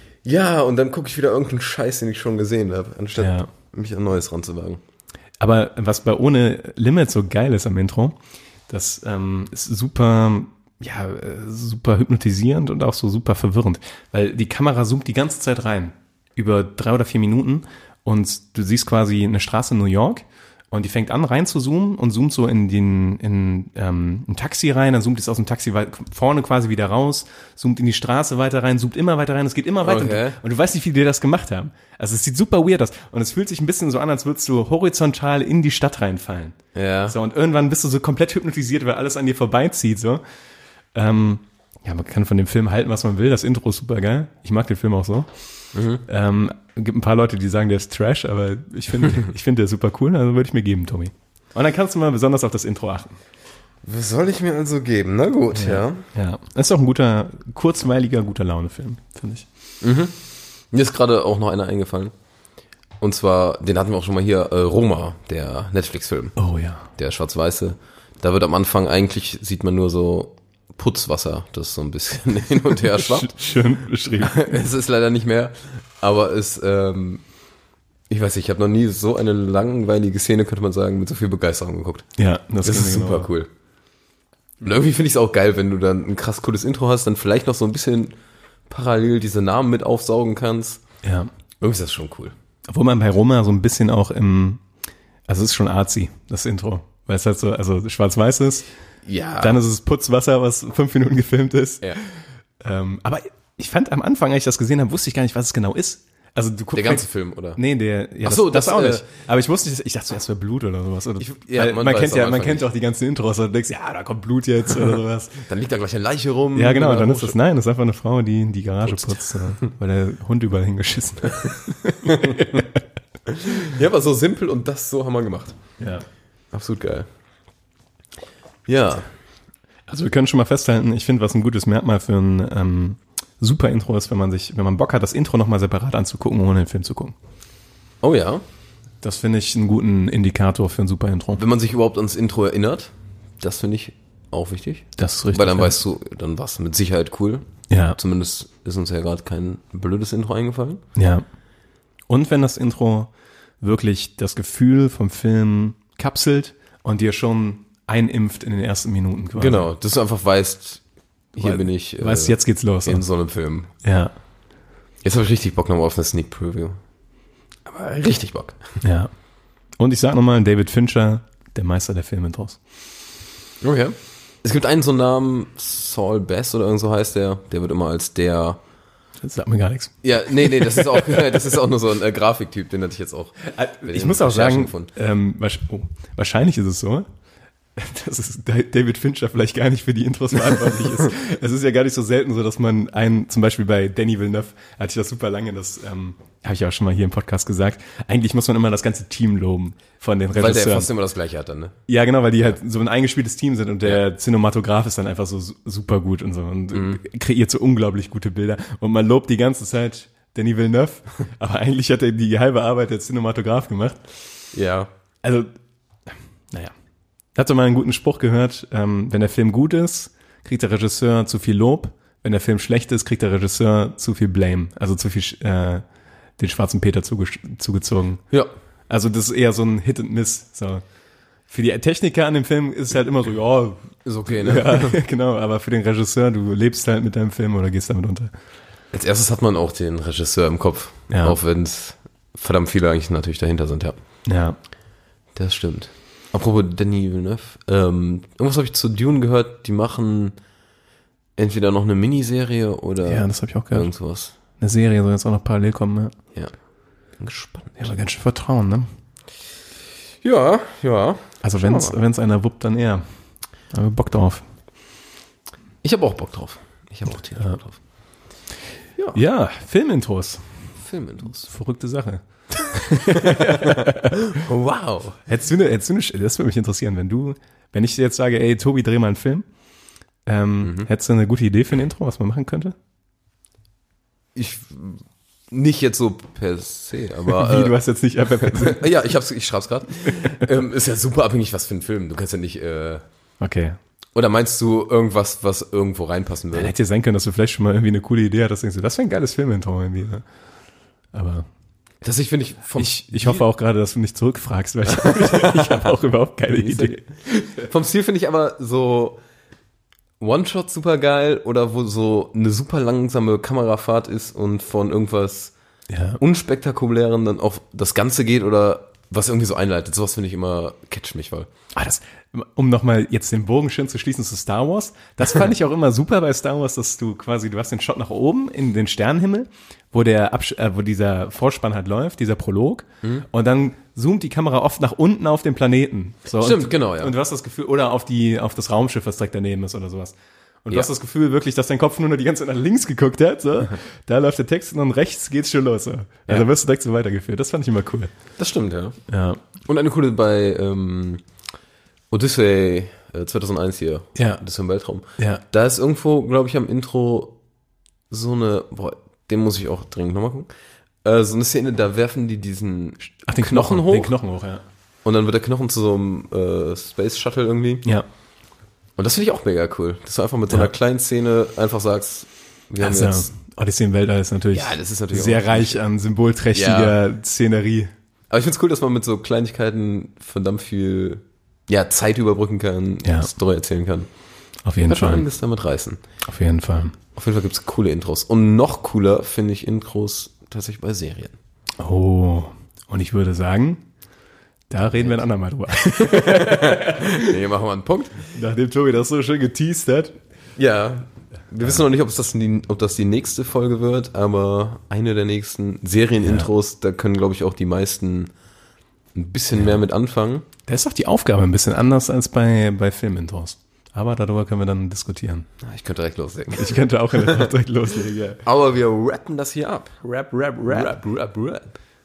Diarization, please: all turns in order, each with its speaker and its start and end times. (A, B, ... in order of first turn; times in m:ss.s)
0:00.2-0:04.8 A
0:03.2-0:03.5 B
0:05.4-0:08.2 B
0:08.7-0:40.2 B
0:29.8-0:30.4 A
0:36.8-0:37.2 A
0:41.0-0:45.3 B
0:45.7-0:46.0 A
0:46.0-0:53.2 B
0:53.8-0:56.0 A
0:55.6-0:59.5 B
0:59.8-1:00.2 A
1:00.7-1:02.1 A
1:03.0-1:06.4 A
1:06.4-1:06.9 B
1:07.0-1:13.3 A
1:12.9-1:14.5 B
1:14.2-1:17.2 A
1:18.1-1:22.1 A
1:22.2-1:23.3 B
1:22.6-1:23.5 A
1:24.6-1:28.2 A
1:28.7-1:30.8 A
1:31.0-1:31.3 B
1:31.6-1:32.4 A
1:32.7-1:34.6 B
1:35.3-1:38.7 B
1:39.0-1:39.6 A
1:39.4-1:42.0 B
1:42.6-1:55.4 B
1:46.7-1:47.6 A
1:48.2-1:49.1 A
1:51.2-1:52.7 A
1:55.4-1:57.4 A
1:56.5-2:02.8 B
1:58.9-1:59.5 A
2:02.0-2:02.6 A
2:03.3-2:05.6 A
2:05.8-2:06.0 B
2:06.5-2:07.1 A
2:08.7-2:09.1 A
2:09.9-2:17.2 B
2:18.0-2:18.4 A
2:19.0-2:21.4 B
2:21.4-2:30.8 A
2:25.0-2:25.7 B
2:27.7-2:28.0 B
2:31.0-2:31.2 B
2:32.1-2:39.7 B
2:39.4-2:40.8 A
2:41.3-2:43.7 A
2:41.4-2:43.1 B
2:43.8-2:44.1 B
2:45.0-2:46.8 A
2:47.7-2:48.7 A
2:48.8-2:49.1 B
2:49.8-2:52.6 B
2:53.6-2:58.6 A
2:59.2-3:01.4 B
3:00.0-3:04.9 A
3:03.4-3:07.1 B
3:07.8-3:20.9 B
3:20.4-3:21.8 A
3:21.9-3:34.0 B
3:26.7-3:27.0 A
3:34.5-3:34.9 A
3:35.2-3:35.5 B
3:37.4-3:45.8 B
3:46.4-3:48.2 B
3:48.9-3:50.8 B
3:51.5-3:58.3 B
3:54.0-3:55.0 A
3:58.9-4:04.0 A
4:01.1-4:01.4 B
4:04.3-4:04.6 B
4:05.4-4:10.4 A
4:11.4-4:14.3 A
4:13.0-4:13.9 B
4:14.6-4:16.1 B
4:17.2-4:17.9 A
4:17.8-4:18.9 B
4:20.2-4:22.0 A
4:21.4-4:23.0 B
4:23.7-4:24.4 B
4:25.8-4:27.8 A
4:29.1-4:30.4 B
4:30.8-4:31.5 A
4:31.4-4:34.3 B
4:33.0-4:35.2 A
4:35.3-4:39.5 B
4:40.3-4:42.8 B
4:40.6-4:40.9 A
4:44.4-4:47.8 A
4:47.3-4:48.9 B
4:48.4-4:53.0 A
4:53.4-4:53.8 B
4:54.2-4:56.7 A
4:56.5-5:00.2 B
5:01.1-5:01.5 B
5:02.0-5:03.4 A
5:02.8-5:07.5 B
5:04.9-5:05.9 A
5:06.5-5:09.2 A
5:10.2-5:15.6 A
5:15.9-5:16.2 B
5:16.2-5:21.5 A
5:21.8-5:48.1 B
5:36.3-5:37.2 A
5:48.4-5:49.0 A
5:49.1-5:49.4 B
5:49.6-5:51.2 A
5:52.1-5:57.4 A
5:54.2-5:54.4 B
5:55.2-5:55.4 B
5:58.1-6:00.5 A
6:01.0-6:04.1 A
6:03.2-6:04.6 B
6:05.0-6:07.8 A
6:09.0-6:13.3 A
6:12.8-6:17.9 B
6:14.5-6:15.8 A
6:16.5-6:17.0 A
6:18.3-6:24.1 A
6:23.0-6:23.3 B
6:24.6-6:25.3 B
6:24.8-6:26.0 A
6:26.3-6:27.0 B
6:27.2-6:31.4 A
6:31.8-6:33.8 B
6:34.7-6:37.4 B
6:35.9-6:38.2 A
6:38.3-6:40.2 B
6:40.6-6:48.3 A
6:46.2-6:46.5 B
6:49.2-6:50.4 A
6:50.7-6:55.5 B
6:55.6-6:57.5 A
6:56.5-6:58.4 B
6:58.4-7:01.8 A
7:00.6-7:00.9 B